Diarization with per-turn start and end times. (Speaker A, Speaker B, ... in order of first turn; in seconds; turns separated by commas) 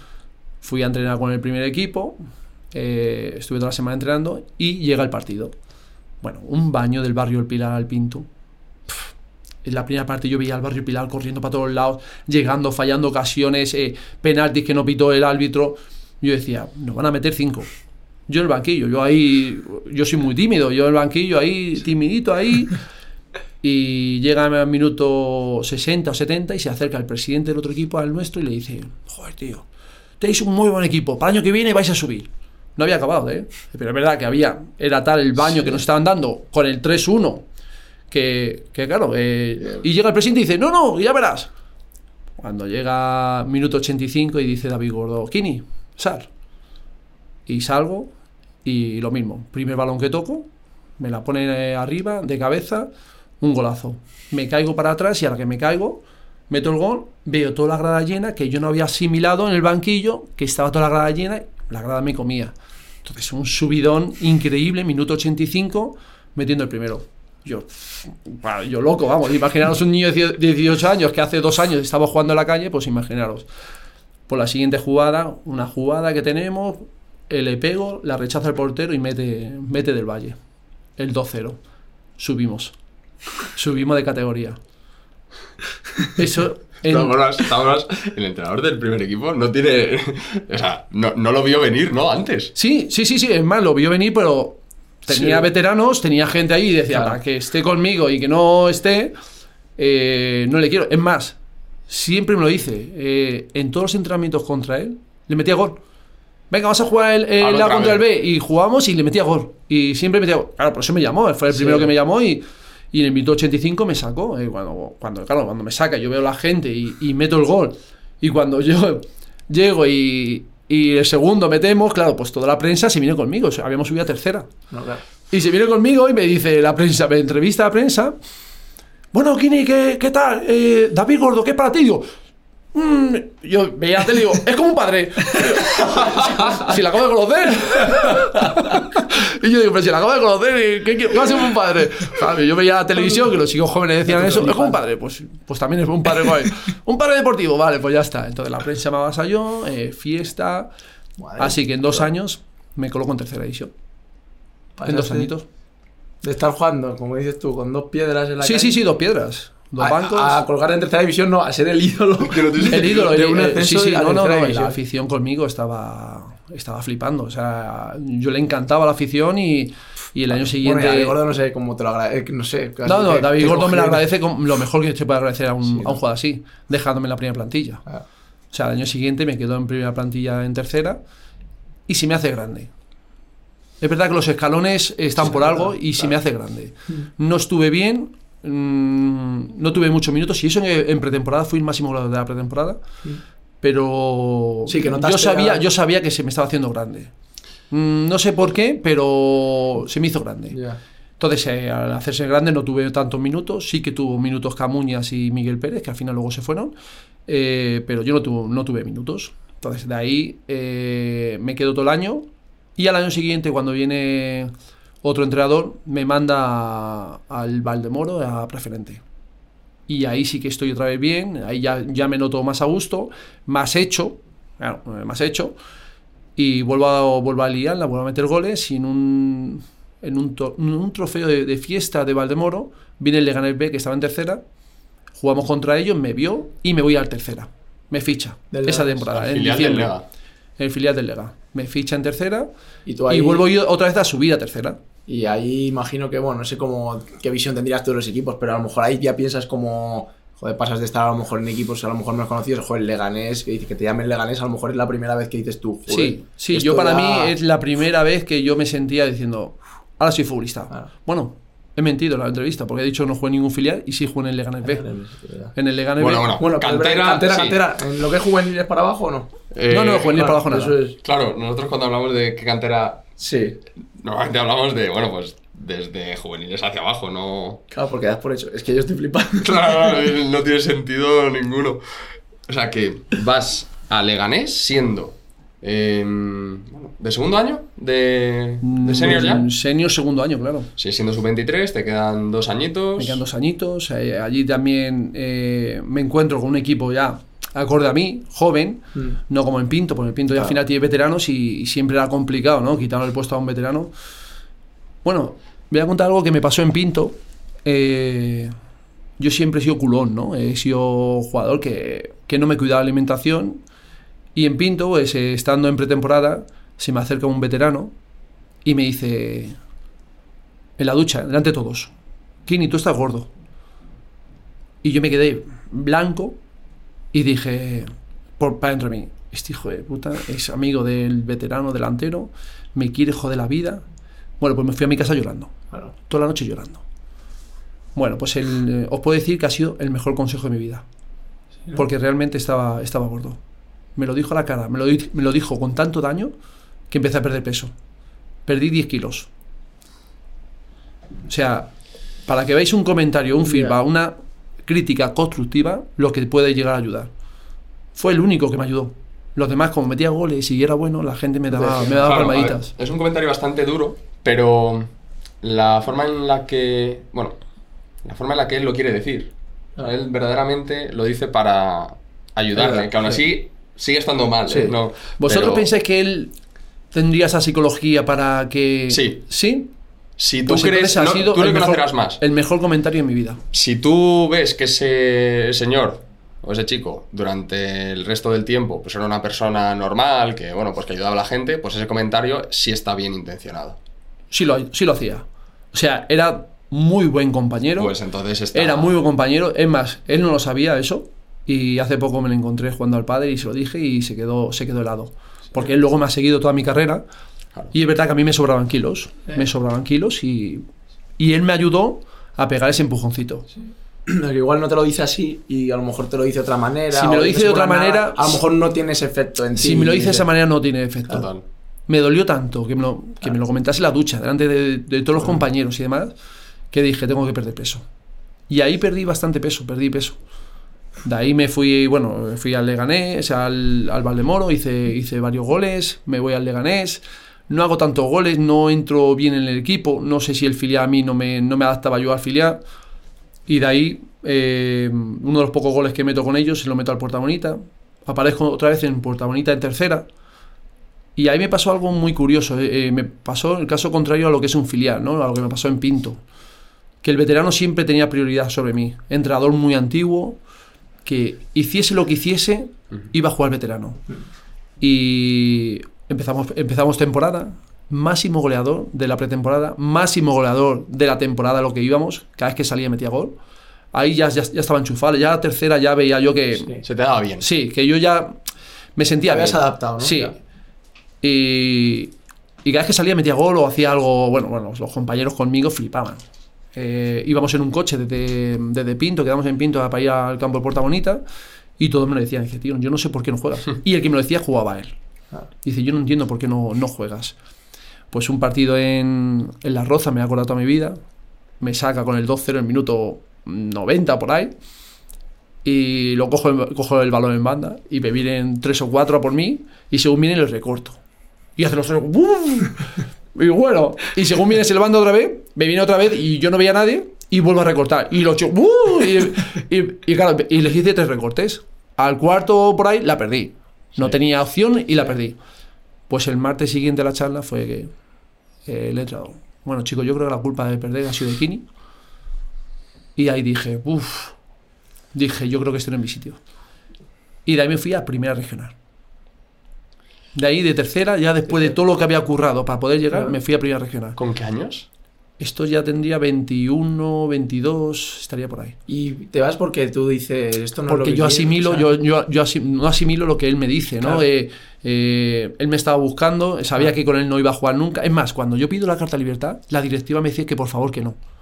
Speaker A: 0.6-2.2, Speaker A: 2.7-5.5, Speaker A: 6.2-8.3, Speaker A: 9.6-17.7, Speaker A: 18.3-22.8, Speaker A: 23.6-29.6, Speaker A: 30.2-37.5, Speaker A: 38.1-41.5, Speaker A: 42.4-46.3, Speaker A: 47.5-48.1, Speaker A: 48.6-73.5, Speaker A: 74.3-80.4, Speaker A: 81.0-81.6, Speaker A: 82.2-82.7, Speaker A: 83.4-84.6, Speaker A: 86.1-87.2, Speaker B: 86.8-92.5, Speaker A: 92.5-99.1, Speaker C: 95.1-95.5, Speaker A: 99.8-101.4, Speaker A: 101.9-105.8, Speaker A: 106.5-124.5, Speaker B: 107.4-108.0, Speaker C: 111.5-111.9, Speaker C: 124.7-125.0, Speaker A: 125.3-128.1, Speaker A: 129.1-132.1, Speaker A: 132.7-150.7, Speaker C: 144.1-144.8, Speaker C: 151.2-152.1, Speaker A: 151.4-153.7, Speaker C: 154.8-155.3, Speaker A: 154.8-155.5, Speaker C: 156.2-158.8, Speaker A: 158.4-160.4, Speaker C: 159.8-164.8, Speaker B: 162.2-163.1, Speaker A: 162.6-171.2, Speaker C: 170.5-174.0, Speaker A: 172.8-177.8, Speaker C: 175.7-176.0, Speaker A: 178.5-181.0, Speaker A: 181.9-182.7, Speaker A: 183.8-192.8, Speaker C: 185.2-186.1, Speaker A: 193.6-197.1, Speaker C: 194.7-195.6, Speaker A: 197.7-200.6, Speaker C: 200.5-200.8, Speaker A: 201.2-206.7, Speaker A: 207.2-214.5, Speaker A: 215.0-219.0, Speaker A: 219.9-225.5, Speaker A: 226.3-234.4, Speaker A: 235.2-239.9, Speaker C: 238.5-239.0, Speaker B: 239.1-240.0, Speaker A: 240.6-242.5, Speaker C: 242.8-243.4, Speaker A: 243.1-244.8, Speaker C: 245.1-257.4, Speaker A: 255.9-264.9, Speaker C: 264.6-265.5, Speaker A: 265.5-266.3, Speaker B: 266.0-267.6, Speaker C: 266.3-269.3, Speaker B: 269.5-270.4, Speaker A: 269.7-270.8, Speaker C: 270.1-270.9, Speaker B: 271.0-273.0, Speaker C: 273.2-273.6, Speaker B: 274.0-277.6, Speaker C: 277.7-279.9, Speaker B: 279.4-281.8, Speaker B: 282.5-289.5, Speaker A: 288.6-290.7, Speaker B: 290.8-293.2, Speaker A: 293.0-303.9, Speaker A: 305.0-308.5, Speaker A: 309.2-313.6, Speaker A: 314.3-317.9, Speaker A: 318.6-319.6, Speaker A: 320.8-321.9, Speaker A: 322.4-323.3, Speaker A: 324.8-326.4, Speaker A: 327.1-333.8, Speaker A: 334.4-335.5, Speaker A: 336.1-336.8, Speaker A: 337.9-340.8, Speaker A: 341.7-343.4, Speaker A: 343.9-346.3, Speaker A: 346.9-347.7, Speaker A: 348.4-349.3, Speaker A: 351.3-351.7, Speaker A: 352.3-354.1, Speaker C: 353.4-353.8, Speaker A: 354.6-357.1, Speaker A: 357.9-362.7, Speaker C: 361.5-362.1, Speaker B: 362.0-364.9, Speaker B: 365.4-367.4, Speaker B: 368.0-375.7, Speaker C: 372.5-373.2, Speaker C: 374.5-374.7, Speaker A: 375.2-376.3, Speaker A: 376.9-379.7, Speaker B: 378.9-379.2, Speaker B: 380.2-382.2, Speaker A: 380.4-383.4, Speaker B: 383.5-393.8, Speaker A: 394.3-397.9, Speaker B: 397.8-398.9, Speaker A: 398.5-407.0, Speaker A: 407.7-410.6, Speaker A: 411.2-413.5, Speaker C: 414.1-420.3, Speaker A: 416.9-418.4, Speaker A: 419.6-421.3, Speaker B: 421.1-421.4, Speaker A: 421.9-426.1, Speaker A: 426.7-427.8, Speaker A: 428.5-430.1, Speaker A: 431.0-442.6, Speaker A: 443.5-450.1, Speaker A: 451.1-456.2, Speaker A: 457.0-460.4, Speaker A: 461.0-464.0, Speaker A: 464.8-473.4, Speaker A: 473.9-476.8, Speaker B: 476.8-477.4, Speaker A: 477.4-478.4, Speaker A: 479.0-480.3, Speaker C: 479.2-480.3, Speaker A: 481.2-482.1, Speaker A: 482.6-486.2, Speaker A: 486.7-491.2, Speaker A: 491.8-494.9, Speaker A: 495.6-497.3, Speaker A: 498.1-501.0, Speaker A: 501.6-504.5, Speaker A: 505.6-511.0, Speaker A: 511.6-525.4, Speaker A: 526.1-527.9, Speaker A: 528.6-531.6, Speaker A: 533.1-534.3, Speaker A: 535.1-536.4, Speaker A: 537.5-538.7, Speaker A: 540.3-544.2, Speaker B: 544.2-544.9, Speaker A: 545.4-548.8, Speaker C: 548.9-551.9, Speaker A: 550.9-561.2